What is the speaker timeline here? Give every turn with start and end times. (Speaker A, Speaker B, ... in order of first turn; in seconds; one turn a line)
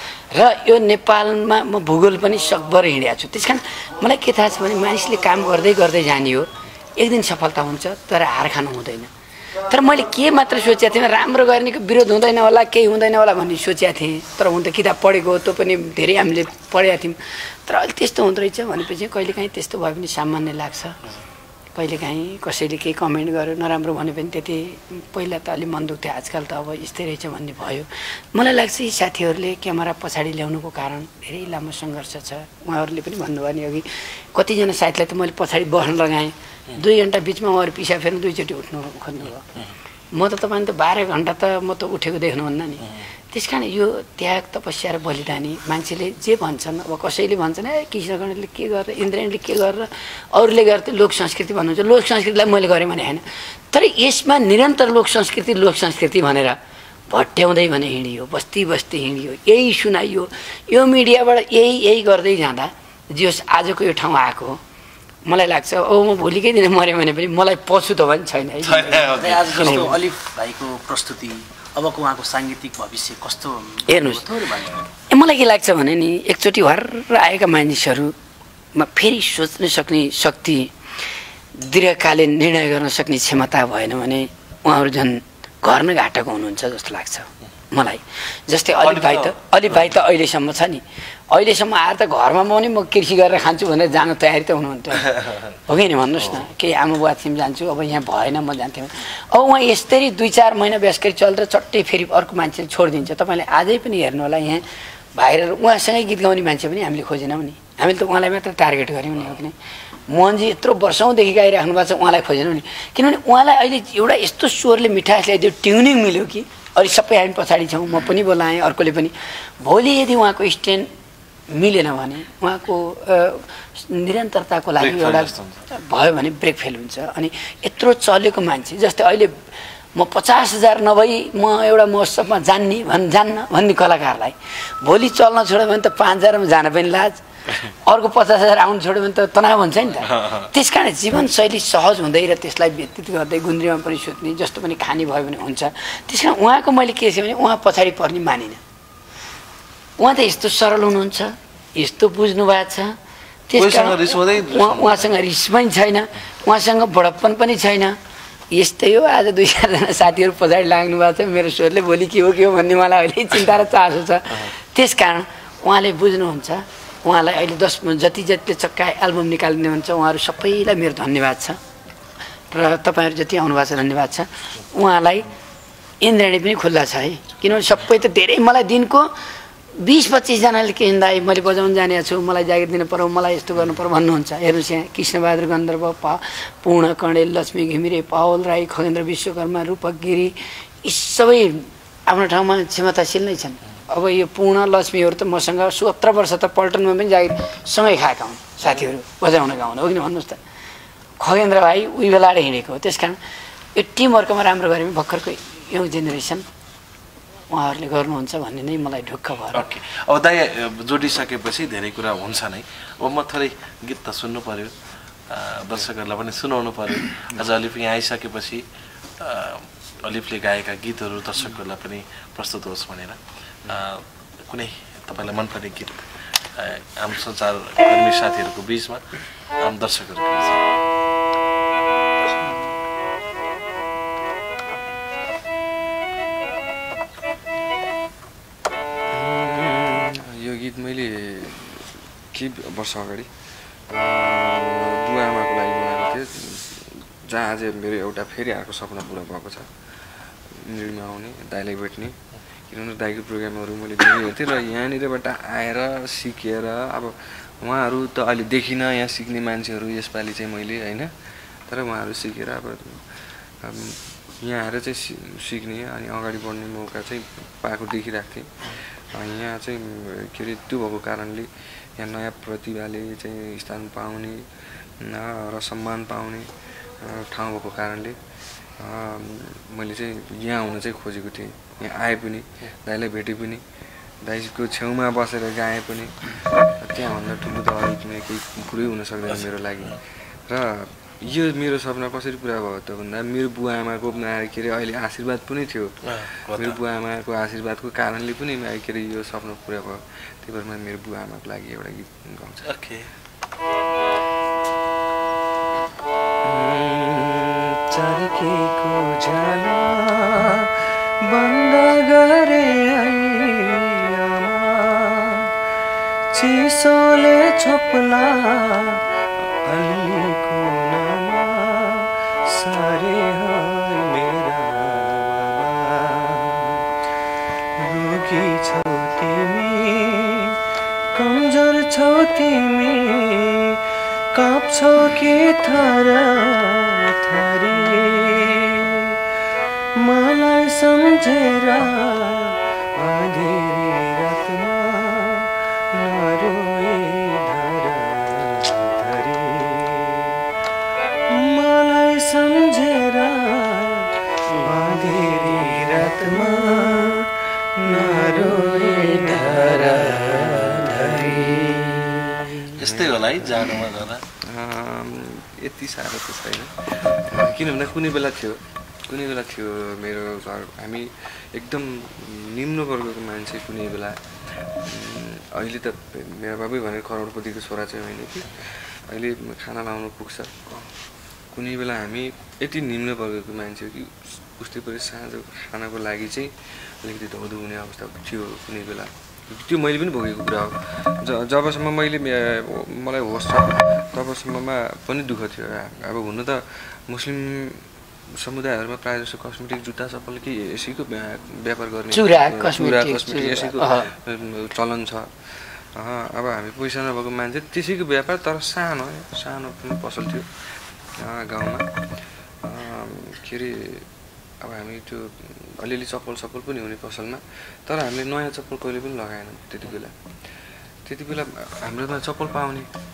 Speaker A: 0.3-9.1
Speaker A: 9.7-20.9
Speaker A: 21.7-39.5
Speaker A: 40.1-56.6
Speaker A: 57.1-64.6
Speaker A: 65.2-70.0
Speaker B: 68.6-70.0
Speaker C: 69.1-74.9
Speaker A: 73.9-74.2
Speaker A: 75.1-78.1
Speaker A: 78.8-80.7
Speaker A: 81.5-109.5
Speaker B: 88.8-89.9
Speaker A: 110.1-120.9
Speaker A: 121.5-148.6
Speaker B: 124.8-125.7
Speaker B: 140.0-140.5
Speaker A: 150.0-152.9
Speaker A: 153.5-157.9
Speaker B: 153.6-155.1
Speaker A: 158.5-171.6
Speaker A: 172.5-175.3
Speaker A: 176.0-179.2
Speaker A: 179.8-200.4
Speaker A: 201.2-203.2
Speaker A: 203.7-206.4
Speaker A: 207.5-209.7
Speaker B: 209.5-214.7
Speaker B: 215.3-218.6
Speaker B: 219.2-230.6
Speaker D: 239.1-243.3
Speaker D: 243.9-249.7
Speaker D: 250.5-252.2
Speaker D: 252.7-261.1
Speaker D: 261.7-274.4
Speaker D: 275.0-276.5
Speaker D: 277.0-278.2
Speaker D: 278.8-283.6
Speaker D: 284.2-302.6
Speaker B: 296.1-296.8
Speaker B: 302.6-303.1
Speaker D: 306.4-315.5
Speaker D: 316.3-326.9
Speaker D: 327.8-330.6
Speaker D: 331.1-333.8
Speaker D: 334.3-339.2
Speaker D: 340.0-350.4
Speaker D: 351.3-380.9
Speaker B: 362.7-364.2
Speaker D: 381.5-397.8
Speaker D: 398.4-410.5
Speaker A: 402.1-404.1
Speaker D: 411.2-411.9
Speaker D: 412.6-414.0
Speaker D: 414.6-420.1
Speaker D: 421.1-422.9